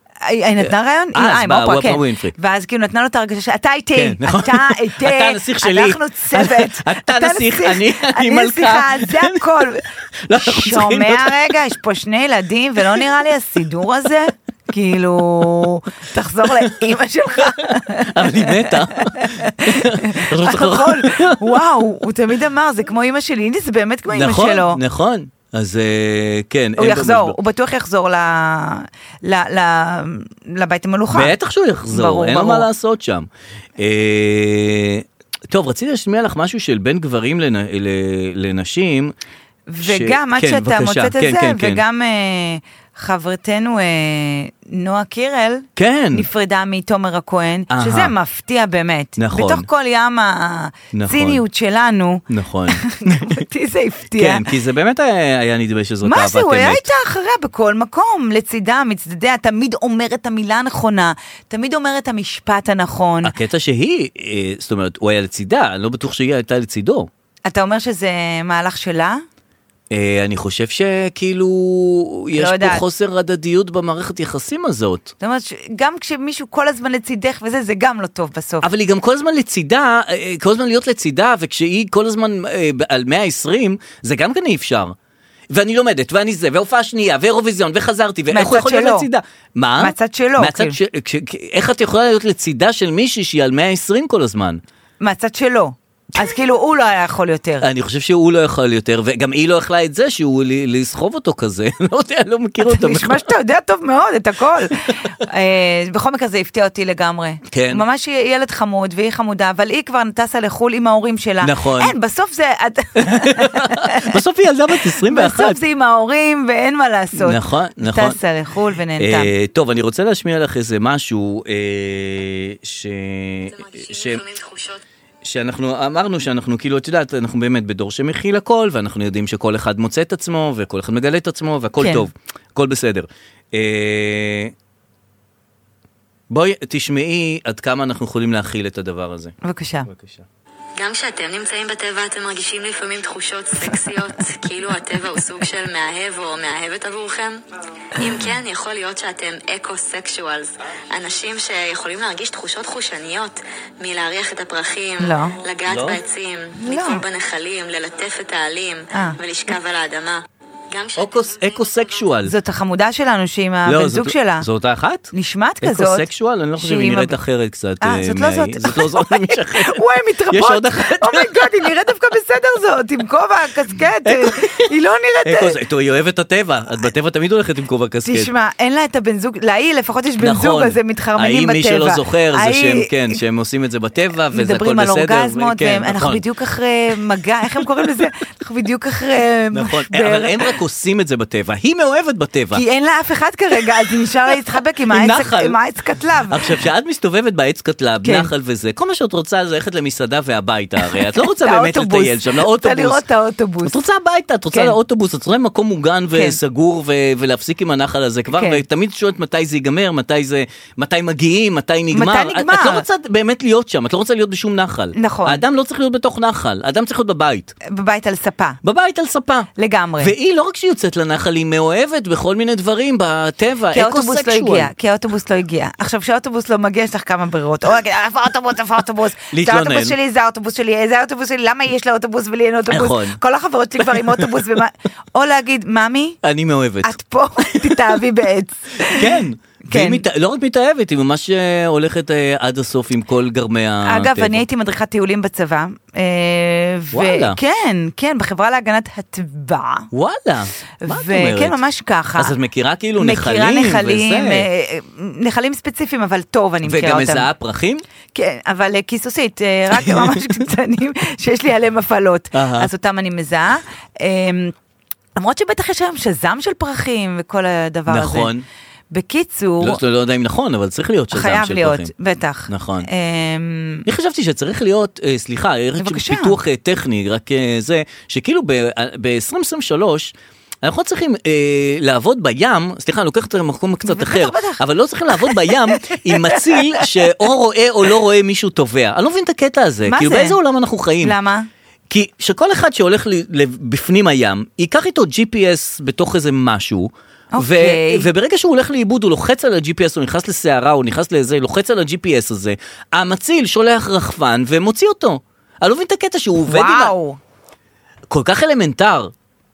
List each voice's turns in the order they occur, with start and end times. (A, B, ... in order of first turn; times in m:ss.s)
0:00.2-0:09.8 A
0:01.1-0:02.3 B
0:03.9-0:09.4 B
0:10.2-0:11.5 B
0:10.3-0:24.8 A
0:17.4-0:21.5 B
0:24.1-0:27.4 B
0:26.8-0:31.3 A
0:31.1-0:39.1 B
0:31.9-0:32.7 A
0:39.7-0:54.5 A
0:39.8-0:41.8 B
0:45.8-0:46.3 B
0:47.7-0:48.1 B
0:49.2-0:49.7 B
0:50.9-0:51.4 B
0:52.3-0:53.4 B
0:54.2-0:56.9 B
0:56.0-1:03.3 A
1:03.2-1:07.1 B
1:07.5-1:09.2 A
1:09.9-1:15.1 B
1:12.3-1:12.8 A
1:15.2-1:18.7 A
1:18.6-1:24.9 B
1:25.5-1:34.6 B
1:28.3-1:29.1 A
1:29.8-1:30.8 A
1:35.0-1:37.6 A
1:37.6-1:43.3 B
1:42.6-1:54.2 A
1:47.5-1:47.8 B
1:51.4-1:51.9 B
1:53.0-1:55.6 B
1:55.0-1:59.3 A
1:57.2-1:58.2 B
1:59.0-2:04.2 B
2:03.5-2:04.8 C
2:05.2-2:14.5 B
2:11.8-2:12.0 A
2:16.3-2:19.3 B
2:19.4-2:19.9 A
2:19.9-2:20.2 B
2:20.8-2:27.4 C
2:27.9-2:40.2 C
2:35.0-2:35.4 A
2:35.7-2:36.0 B
2:36.6-2:37.0 A
2:38.9-2:39.2 A
2:40.7-2:42.1 C
2:41.0-2:42.3 B
2:42.2-2:44.4 A
2:43.6-2:51.7 B
2:45.1-2:47.2 A
2:47.8-2:55.6 A
2:54.0-2:54.7 B
2:55.2-2:58.3 B
2:58.0-3:03.2 A
3:00.2-3:06.2 B
3:04.3-3:10.5 A
3:09.5-3:12.6 B
3:12.5-3:16.4 A
3:14.9-3:15.6 B
3:16.3-3:23.0 B
3:18.0-3:18.3 A
3:20.8-3:23.8 A
3:23.6-3:37.5 B
3:26.1-3:26.4 A
3:28.3-3:28.6 A
3:31.9-3:32.8 A
3:35.0-3:35.4 A
3:37.6-3:38.6 A
3:38.6-3:39.5 B
3:39.6-3:40.1 A
3:40.0-3:44.7 B
3:43.7-3:56.2 A
3:49.3-3:50.0 B
3:52.7-3:53.2 B
3:53.8-3:54.5 B
3:56.2-3:58.0 B
3:56.8-4:00.0 A
3:58.8-4:04.4 B
4:03.8-4:09.9 A
4:06.9-4:07.4 B
4:09.9-4:11.6 B
4:10.8-4:12.3 A
4:12.2-4:14.4 B
4:13.0-4:17.3 A
4:16.6-4:17.8 B
4:18.1-4:24.5 A
4:19.7-4:20.3 B
4:22.3-4:22.7 B
4:25.2-4:28.3 A
4:27.9-4:28.4 B
4:28.9-4:29.8 A
4:29.6-4:31.9 B
4:31.1-4:33.8 A
4:32.5-4:32.9 B
4:33.8-4:51.1 B
4:35.8-4:36.4 A
4:43.8-4:44.6 A
4:45.2-4:47.0 A
4:49.9-4:50.4 A
4:51.0-4:51.5 A
4:51.9-5:06.9 B
4:57.3-4:58.1 A
5:06.5-5:07.2 A
5:08.1-5:09.1 B